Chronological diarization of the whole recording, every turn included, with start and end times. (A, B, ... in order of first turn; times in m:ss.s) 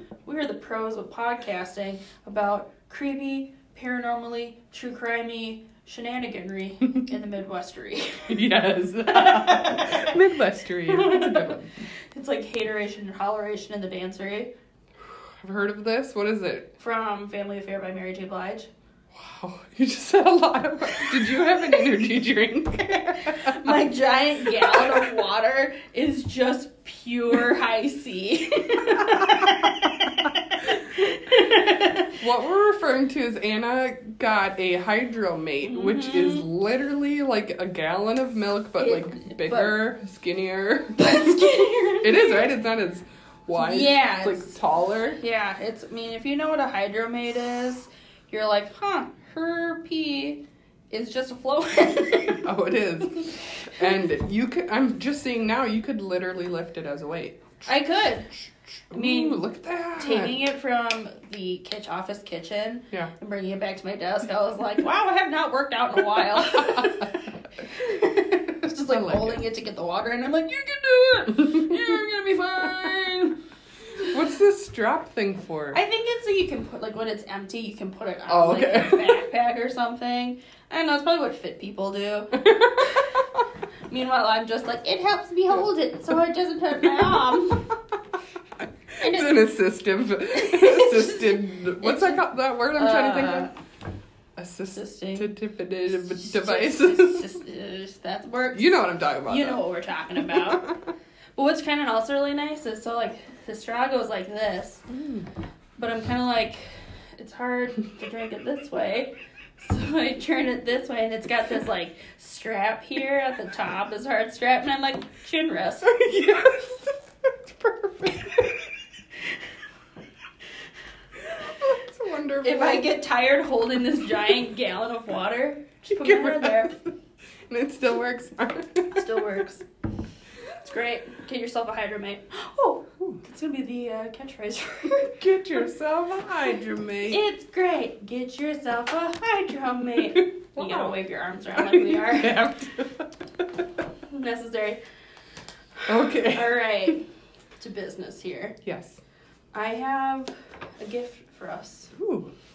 0:00.2-0:08.4 A
0:08.3-0:11.9 B
0:09.1-0:10.2 A
0:10.9-0:11.5 A
0:12.1-0:14.5 A
0:15.4-0:16.7 B
0:16.8-0:18.7 A
0:19.1-0:23.9 B
0:23.2-0:32.2 A
0:24.5-0:25.2 B
0:29.0-0:29.5 B
0:32.2-0:41.3 B
0:35.6-0:36.5 A
0:38.8-0:39.8 A
0:41.0-0:42.5 A
0:42.0-0:45.2 B
0:43.6-0:44.6 A
0:45.2-0:52.5 A
0:52.4-0:57.7 B
0:57.7-0:58.4 A
0:58.4-1:00.4 B
0:58.9-0:59.4 A
1:00.0-1:13.4 A
1:06.3-1:07.1 B
1:08.9-1:09.4 B
1:14.1-1:15.8 B
1:15.7-1:23.2 A
1:18.3-1:19.2 B
1:23.9-1:27.8 A
1:29.0-1:29.5 A
1:29.0-1:33.5 B
1:30.3-1:33.5 A
1:34.4-1:37.3 B
1:34.7-1:35.3 A
1:36.1-1:40.7 A
1:38.5-1:39.6 B
1:40.2-1:40.9 B
1:41.4-1:44.9 A
1:44.9-1:45.3 B
1:45.8-1:56.0 A
1:55.9-1:56.9 B
1:57.5-1:58.6 B
1:58.1-1:58.4 A
2:01.4-2:03.0 B
2:02.4-2:06.8 A
2:05.9-2:06.9 B
2:07.5-2:09.4 B
2:08.9-2:09.6 A
2:10.5-2:15.2 A
2:15.0-2:17.2 B
2:17.1-2:22.6 A
2:20.2-2:21.0 B
2:21.6-2:23.1 B
2:24.1-2:24.8 A
2:25.8-2:27.0 A
2:25.9-2:26.9 B
2:27.6-2:28.6 A
2:28.6-2:29.0 B
2:29.5-2:31.9 A
2:32.0-2:32.3 B